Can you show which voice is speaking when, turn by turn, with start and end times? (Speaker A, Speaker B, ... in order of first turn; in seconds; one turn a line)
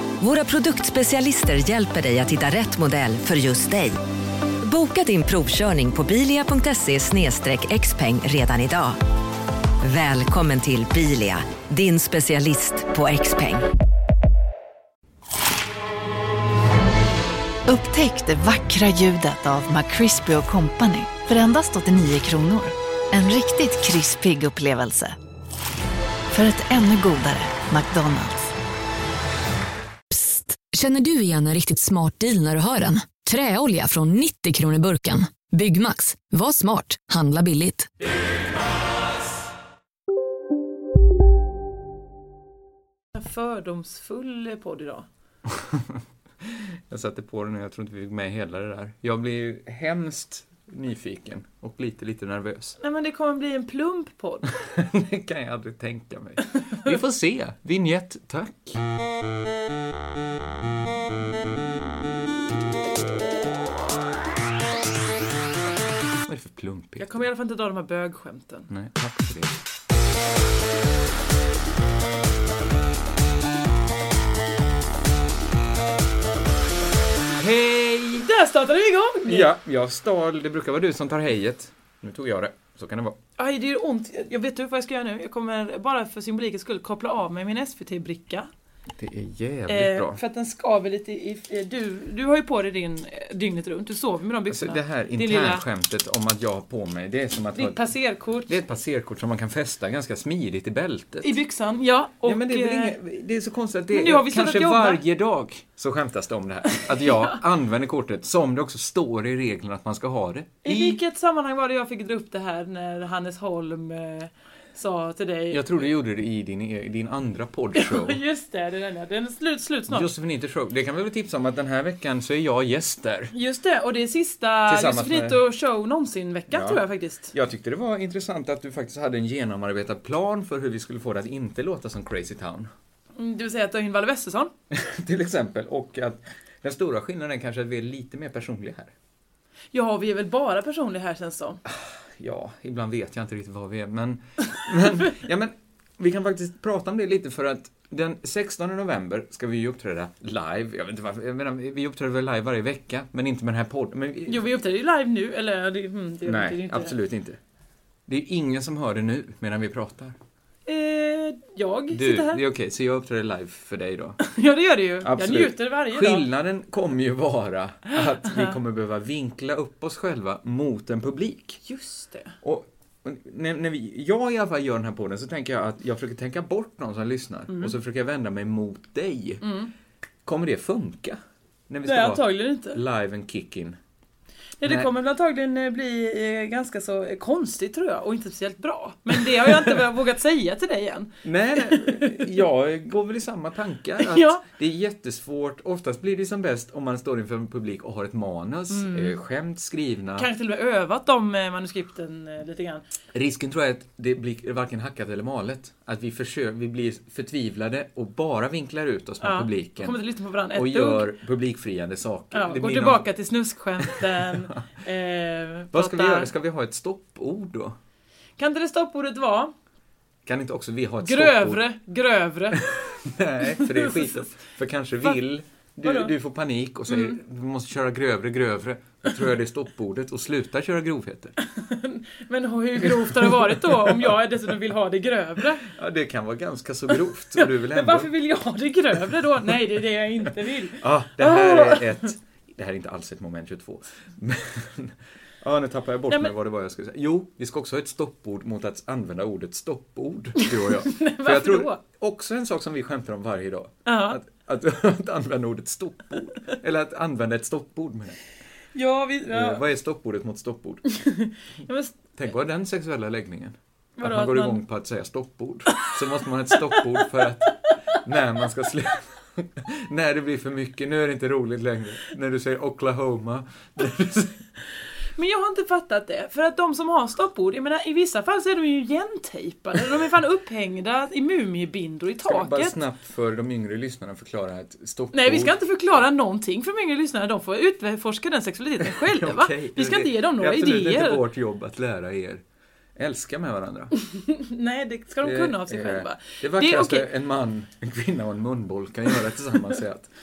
Speaker A: 0.2-4.0
Speaker A: 4.6-9.0
Speaker A: 9.8-13.7
Speaker B: 17.7-25.1
Speaker B: 26.3-28.5
Speaker C: 30.1-37.9
Speaker D: 43.1-45.1
Speaker E: 45.5-52.8
Speaker D: 52.8-54.5
Speaker E: 54.6-58.8
Speaker E: 66.2-67.2
Speaker D: 67.0-68.7
Speaker E: 68.7-69.6
Speaker E: 77.4-78.2
Speaker D: 78.0-79.5
Speaker E: 79.3-83.2
Speaker D: 83.4-88.5
Speaker E: 89.0-90.2
Speaker D: 89.7-95.6
Speaker E: 94.5-97.9
Speaker D: 97.5-98.6
Speaker E: 98.5-101.4
Speaker D: 101.2-103.0
Speaker E: 102.2-111.0
Speaker D: 103.9-105.0
Speaker D: 106.8-107.3
Speaker D: 110.6-115.8
Speaker E: 115.5-118.2
Speaker D: 117.7-120.1
Speaker E: 119.9-123.3
Speaker D: 123.3-127.3
Speaker E: 124.7-125.4
Speaker E: 126.5-132.7
Speaker D: 133.2-134.5
Speaker E: 134.7-138.9
Speaker D: 139.7-141.6
Speaker E: 141.7-154.4
Speaker D: 154.3-156.9
Speaker E: 156.2-157.4
Speaker E: 158.1-160.1
Speaker D: 160.7-162.4
Speaker E: 161.9-164.2
Speaker D: 164.2-166.3
Speaker E: 165.0-171.6
Speaker D: 171.6-172.3
Speaker E: 172.4-179.4
Speaker D: 179.4-179.7
Speaker E: 180.2-183.8
Speaker D: 181.8-182.8
Speaker D: 184.6-192.4
Speaker E: 184.6-184.9
Speaker E: 189.2-189.7
Speaker E: 191.2-200.3
Speaker D: 194.0-194.4
Speaker D: 198.7-199.2
Speaker D: 200.2-202.8
Speaker E: 203.1-210.0
Speaker D: 209.2-211.1
Speaker E: 210.5-213.1
Speaker D: 212.3-216.3
Speaker E: 213.9-214.6
Speaker E: 215.7-217.8
Speaker D: 218.4-219.5
Speaker E: 220.2-221.6
Speaker D: 221.0-222.6
Speaker E: 222.5-231.3
Speaker D: 223.6-224.2
Speaker D: 225.8-226.1
Speaker D: 226.9-227.2
Speaker D: 231.4-235.6
Speaker E: 232.8-234.1
Speaker E: 235.6-238.1
Speaker D: 237.3-242.1
Speaker E: 240.7-258.2
Speaker D: 250.4-251.8
Speaker D: 253.8-254.2
Speaker D: 258.7-259.6
Speaker E: 259.3-260.8
Speaker D: 260.9-262.0
Speaker E: 262.1-274.4
Speaker D: 264.0-264.6
Speaker D: 275.1-282.8
Speaker E: 282.2-285.6
Speaker D: 285.1-291.2
Speaker E: 288.8-292.4
Speaker E: 292.9-293.9
Speaker D: 294.1-297.1
Speaker E: 295.2-300.1